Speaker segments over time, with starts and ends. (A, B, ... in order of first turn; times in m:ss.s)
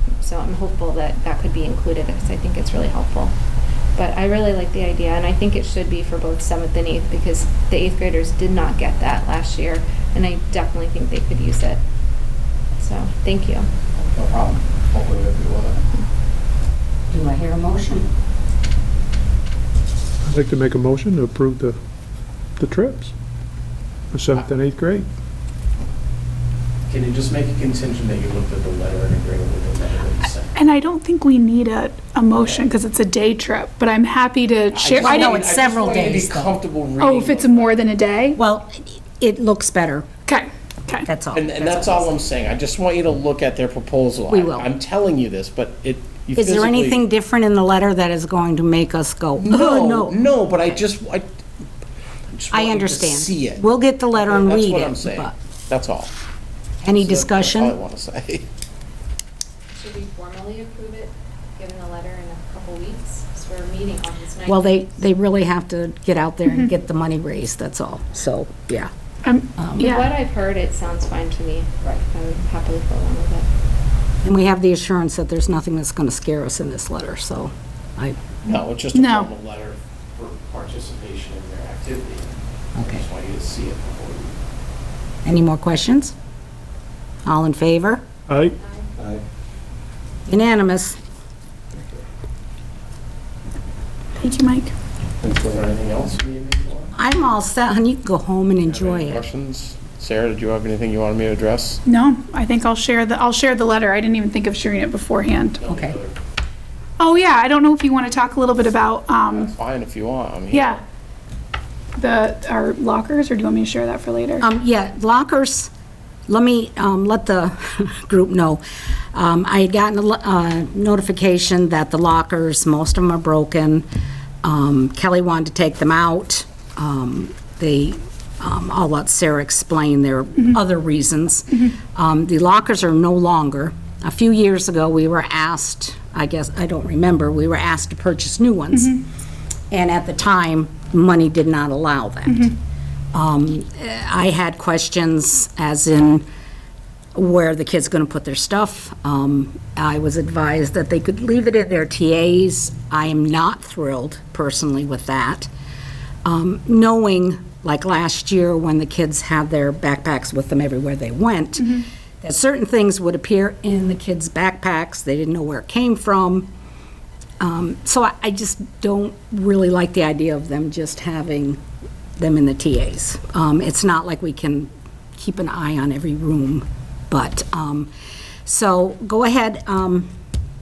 0:00.2-0:03.3 A
0:04.0-0:11.8 A
0:12.8-0:13.7 A
0:14.0-0:15.8 B
0:17.1-0:18.1 C
0:20.2-0:21.8 D
0:22.6-0:23.1 D
0:24.1-0:25.1 D
0:26.9-0:30.5 B
0:30.5-0:35.4 E
0:32.4-0:32.7 B
0:34.7-0:37.9 B
0:34.8-0:36.6 C
0:37.0-0:38.4 E
0:38.3-0:40.0 C
0:40.3-0:41.1 E
0:41.0-0:42.1 C
0:41.3-0:47.0 B
0:44.3-0:44.7 C
0:46.4-0:50.2 C
0:49.4-0:51.3 B
0:52.3-0:56.1 B
0:52.5-0:55.3 C
0:56.8-0:57.7 C
0:56.8-0:58.4 B
0:59.7-1:05.0 A
1:04.4-1:08.9 C
1:09.2-1:10.1 E
1:09.6-1:10.0 C
1:09.8-1:13.5 A
1:14.2-1:18.2 C
1:18.4-1:24.3 B
1:18.9-1:19.3 E
1:22.8-1:23.0 C
1:25.2-1:26.1 C
1:27.2-1:28.0 C
1:28.3-1:28.5 D
1:28.6-1:28.9 A
1:30.3-1:31.0 C
1:34.2-1:34.7 E
1:35.2-1:36.9 B
1:36.9-1:39.2 C
1:38.6-1:41.8 B
1:41.8-1:45.6 E
1:45.6-1:46.1 B
1:45.7-1:46.0 C
1:47.0-1:49.5 E
1:49.3-1:50.8 B
1:50.5-1:50.8 E
1:52.0-1:54.4 E
1:54.4-1:55.7 C
1:56.3-1:58.6 C
1:59.1-2:03.8 C
2:04.4-2:19.0 C
2:19.7-2:22.5 C
2:23.1-2:26.2 C
2:27.1-2:35.5 C
2:36.2-2:46.5 C
2:41.6-2:41.8 E
2:47.4-2:51.6 C
2:52.2-2:57.9 C
2:58.4-3:00.1 C